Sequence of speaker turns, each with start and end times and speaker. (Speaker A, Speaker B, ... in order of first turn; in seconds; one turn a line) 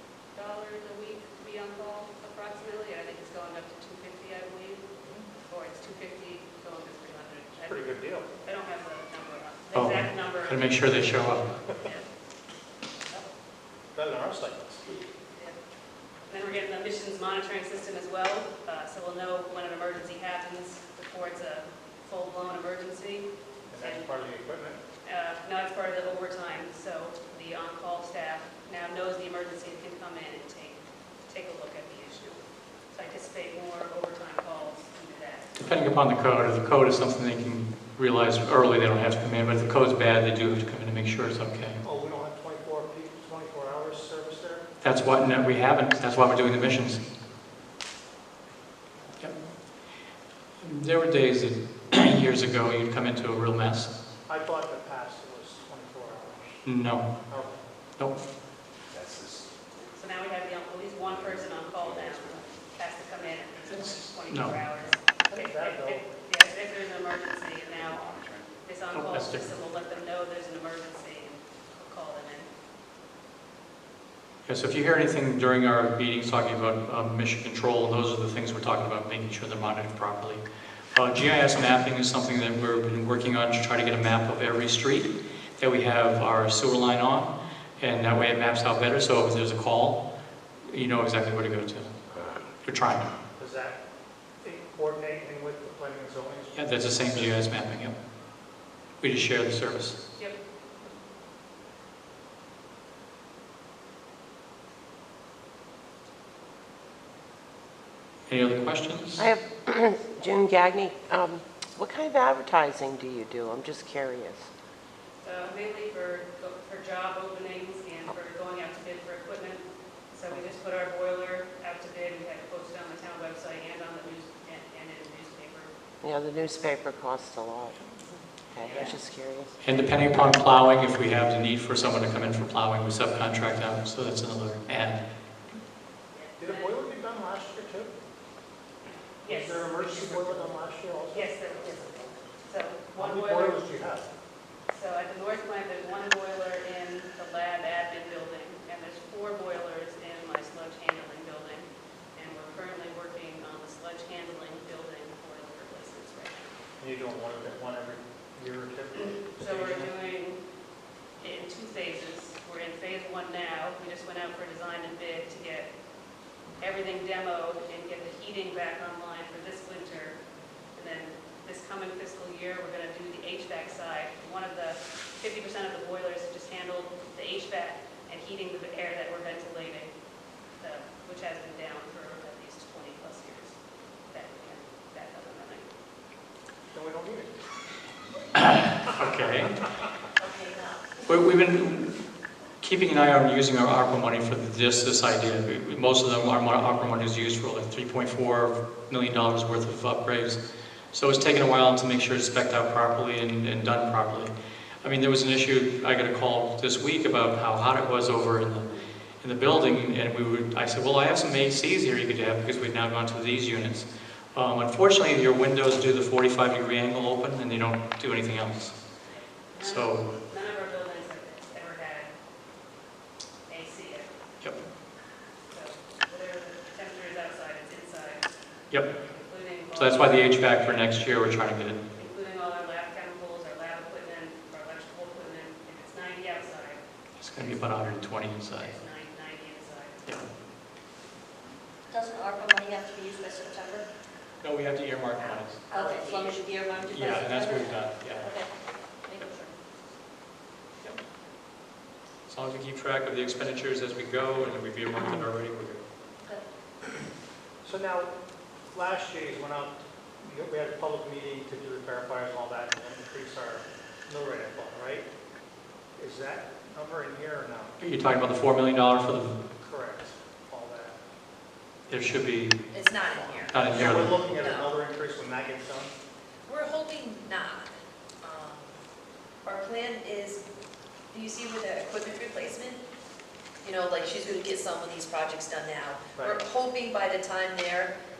Speaker A: 0.3-4.8
Speaker B: 5.0-5.3
Speaker A: 5.5-7.8
Speaker B: 7.6-8.3
Speaker A: 8.4-10.7
Speaker C: 9.7-11.5
Speaker A: 11.8-12.1
Speaker B: 13.9-14.8
Speaker A: 15.3-15.6
Speaker A: 16.3-23.3
Speaker B: 23.7-24.8
Speaker A: 23.8-24.1
Speaker A: 25.0-32.4
Speaker A: 32.9-35.5
Speaker C: 35.5-41.8
Speaker B: 41.8-44.6
Speaker C: 44.8-47.0
Speaker C: 50.6-53.9
Speaker B: 54.3-56.6
Speaker C: 56.6-57.1
Speaker B: 57.3-57.6
Speaker D: 58.9-59.4
Speaker A: 59.8-72.5
Speaker D: 61.0-62.3
Speaker C: 63.7-64.6
Speaker B: 65.3-66.2
Speaker D: 67.8-68.4
Speaker C: 68.9-69.5
Speaker C: 74.5-90.0
Speaker C: 90.7-91.9
Speaker C: 92.6-93.1
Speaker B: 93.4-93.8
Speaker B: 94.4-97.4
Speaker C: 96.5-97.9
Speaker C: 99.0-100.0
Speaker C: 108.3-109.2
Speaker E: 109.2-114.5
Speaker A: 115.2-125.7
Speaker E: 126.0-129.6
Speaker A: 128.6-129.0
Speaker C: 129.6-135.0
Speaker A: 136.1-136.8
Speaker B: 136.4-137.9
Speaker A: 139.2-140.5
Speaker B: 139.2-141.3
Speaker A: 141.1-143.6
Speaker B: 142.9-144.1
Speaker A: 144.7-156.5
Speaker B: 156.8-159.9
Speaker A: 159.2-160.4
Speaker A: 161.2-165.7
Speaker A: 166.6-170.2
Speaker A: 170.7-179.9
Speaker A: 180.6-183.6
Speaker A: 184.1-185.7
Speaker B: 186.7-187.4
Speaker C: 188.3-189.7
Speaker F: 190.2-191.0
Speaker C: 191.1-192.0
Speaker C: 192.6-200.4
Speaker C: 200.9-208.7
Speaker C: 209.2-218.7
Speaker A: 219.1-222.1
Speaker C: 219.6-220.1
Speaker A: 223.5-224.1
Speaker A: 225.5-228.2
Speaker A: 229.0-230.8
Speaker C: 229.7-231.8
Speaker A: 231.9-236.8
Speaker C: 237.2-238.8
Speaker A: 237.4-237.9
Speaker A: 238.6-240.1
Speaker G: 241.9-243.8
Speaker C: 244.4-245.7
Speaker G: 245.7-249.5
Speaker F: 245.7-246.3
Speaker C: 246.9-248.3
Speaker C: 252.3-255.8
Speaker B: 257.6-258.1
Speaker B: 258.7-265.1
Speaker B: 266.0-267.7
Speaker C: 267.8-269.4
Speaker B: 269.6-271.0
Speaker C: 271.9-272.6
Speaker F: 272.7-274.7
Speaker C: 273.5-274.2
Speaker B: 273.6-275.9
Speaker F: 276.5-277.7
Speaker F: 278.2-278.8
Speaker F: 279.4-280.4
Speaker F: 281.1-282.8
Speaker F: 283.6-287.9
Speaker B: 286.1-286.4